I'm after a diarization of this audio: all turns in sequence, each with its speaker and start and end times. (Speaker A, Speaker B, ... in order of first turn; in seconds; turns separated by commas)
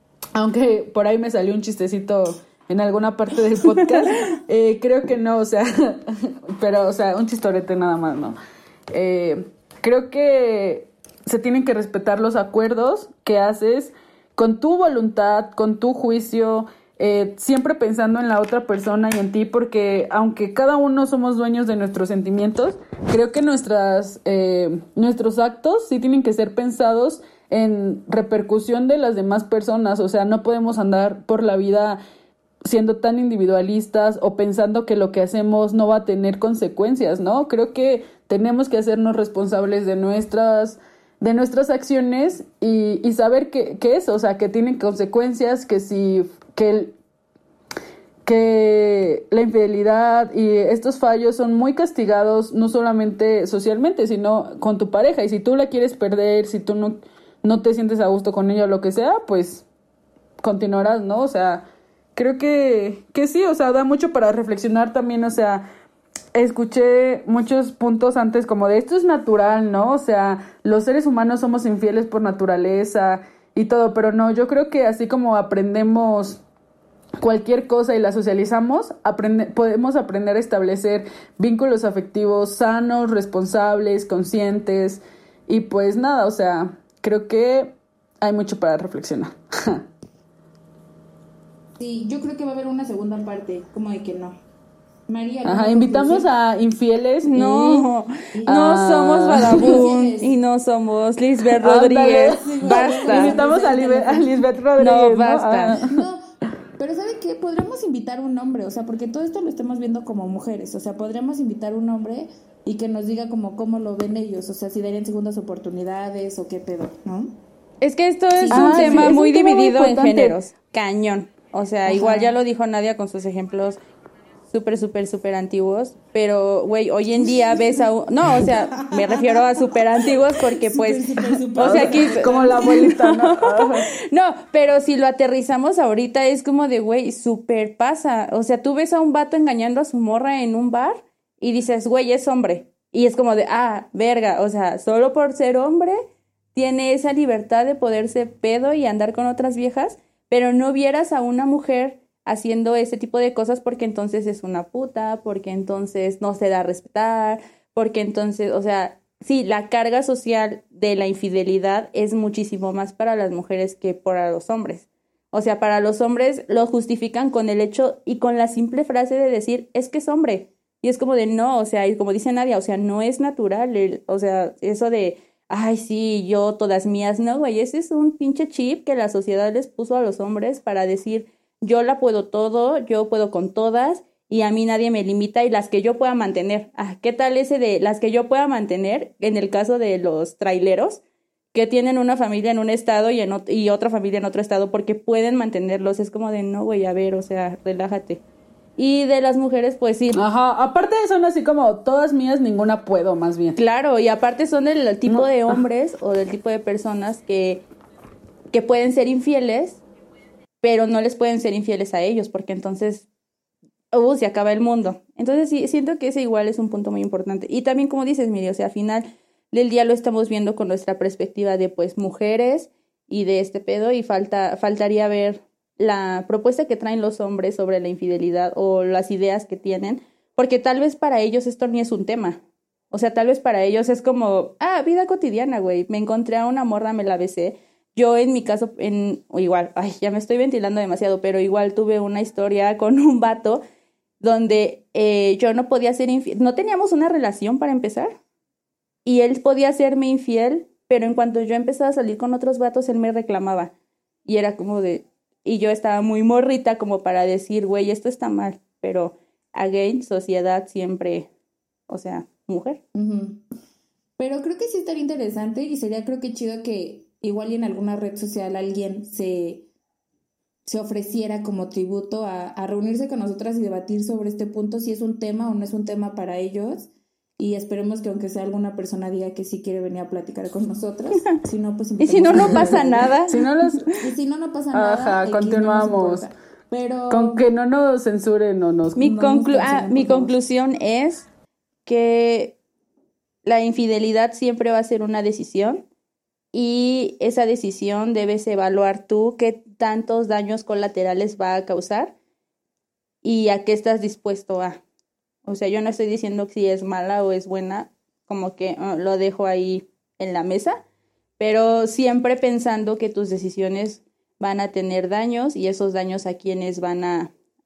Speaker A: 0.3-8.3, Speaker A: 8.9-32.0, Speaker A: 32.6-46.9, Speaker A: 48.2-59.6, Speaker A: 60.4-65.7, Speaker A: 66.3-76.4, Speaker A: 77.2-89.8, Speaker B: 91.8-94.3, Speaker B: 95.1-96.3, Speaker A: 95.4-97.9, Speaker C: 97.2-103.3, Speaker B: 98.3-98.8, Speaker A: 98.5-99.8, Speaker B: 99.5-100.3, Speaker A: 101.5-106.0, Speaker B: 102.1-104.4, Speaker C: 104.8-105.8, Speaker B: 105.8-106.2, Speaker B: 106.8-117.3, Speaker C: 117.8-123.8, Speaker B: 118.3-119.2, Speaker A: 118.5-120.3, Speaker B: 121.8-122.3, Speaker C: 124.5-146.0, Speaker B: 128.8-129.4, Speaker B: 130.6-132.9, Speaker A: 131.6-133.9, Speaker C: 146.5-191.0, Speaker C: 191.5-198.2, Speaker C: 198.8-200.2, Speaker A: 200.1-203.6, Speaker C: 203.6-207.6, Speaker A: 205.1-205.6, Speaker C: 208.5-209.8, Speaker C: 210.6-213.1, Speaker C: 213.9-243.6, Speaker C: 244.2-248.2, Speaker C: 249.0-253.7, Speaker C: 254.2-261.3, Speaker C: 261.9-262.8, Speaker B: 262.9-263.4, Speaker B: 264.2-269.7, Speaker B: 270.6-283.2, Speaker C: 282.0-283.9, Speaker A: 282.3-283.9, Speaker B: 283.9-287.4, Speaker A: 284.7-286.3, Speaker A: 287.1-289.0, Speaker C: 289.0-291.3, Speaker B: 289.0-290.4, Speaker C: 291.9-292.6, Speaker C: 293.4-295.8, Speaker C: 296.5-302.1, Speaker C: 303.2-304.8, Speaker C: 305.4-310.8, Speaker C: 311.4-317.3